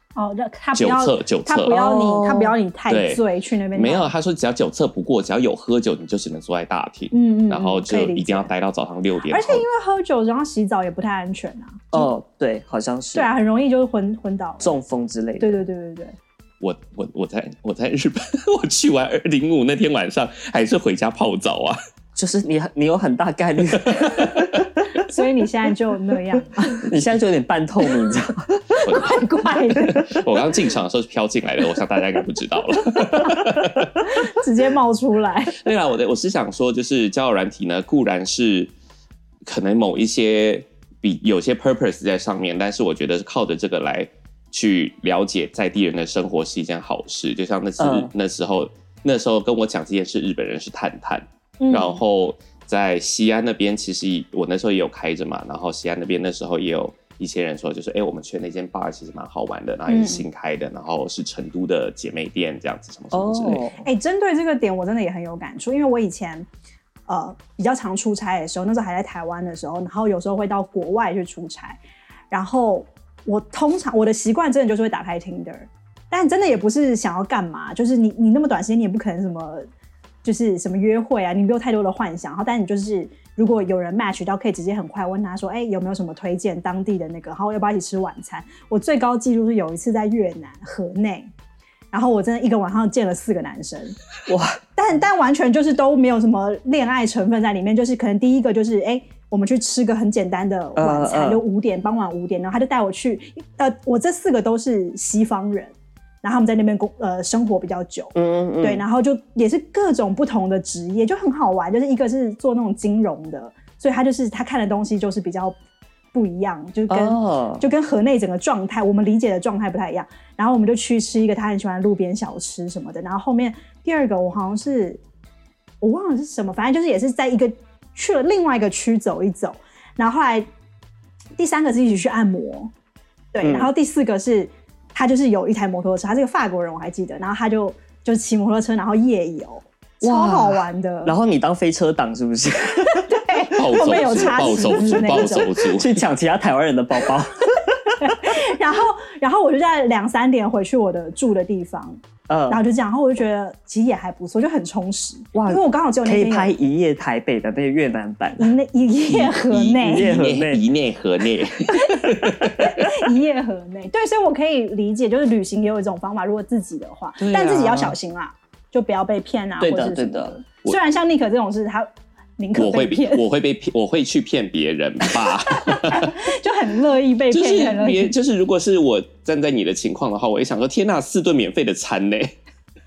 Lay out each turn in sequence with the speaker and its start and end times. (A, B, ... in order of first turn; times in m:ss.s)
0:00.2-0:04.1 A
0:00.7-0:01.9 B
0:01.7-0:02.5 C
0:02.9-0:09.6 B
0:07.1-0:08.5 A
0:09.3-0:12.1 A
0:11.9-0:13.3 C
0:13.1-0:14.8 A
0:14.6-0:15.6 C
0:15.4-0:16.1 A
0:16.6-0:21.8 B
0:22.2-0:24.9 C
0:24.0-0:24.5 B
0:25.1-0:26.9 A
0:26.8-0:28.8 C
0:28.7-0:30.2 A
0:28.8-0:29.2 B
0:29.9-0:34.0 B
0:34.1-0:35.6 A
0:35.6-0:38.7 B
0:39.4-1:03.6 B
0:47.8-0:48.1 C
0:51.6-0:52.0 A
0:59.9-1:00.2 A
1:03.1-1:03.8 C
1:03.8-1:06.5 A
1:07.1-1:11.8 A
1:12.3-1:19.7 A
1:20.2-1:31.3 A
1:31.9-1:34.0 A
1:34.3-1:34.6 C
1:34.8-1:55.6 A
1:40.8-1:41.4 C
1:48.1-1:48.8 C
1:56.1-2:05.0 A
1:56.9-1:57.6 C
2:05.8-2:10.5 A
2:11.4-2:12.7 A
2:13.3-2:21.1 A
2:13.4-2:13.7 C
2:20.0-2:23.1 C
2:22.9-2:25.5 A
2:23.5-2:25.9 B
2:24.9-2:27.8 C
2:28.0-2:36.5 A
2:32.3-2:32.6 C
2:35.3-2:38.5 C
2:38.4-2:40.1 A
2:39.1-2:42.9 B
2:39.8-2:40.6 C
2:41.7-2:53.2 A
2:47.3-2:47.9 C
2:49.6-2:50.3 C
2:52.5-2:56.1 B
2:55.6-2:58.1 A
2:57.3-3:02.3 B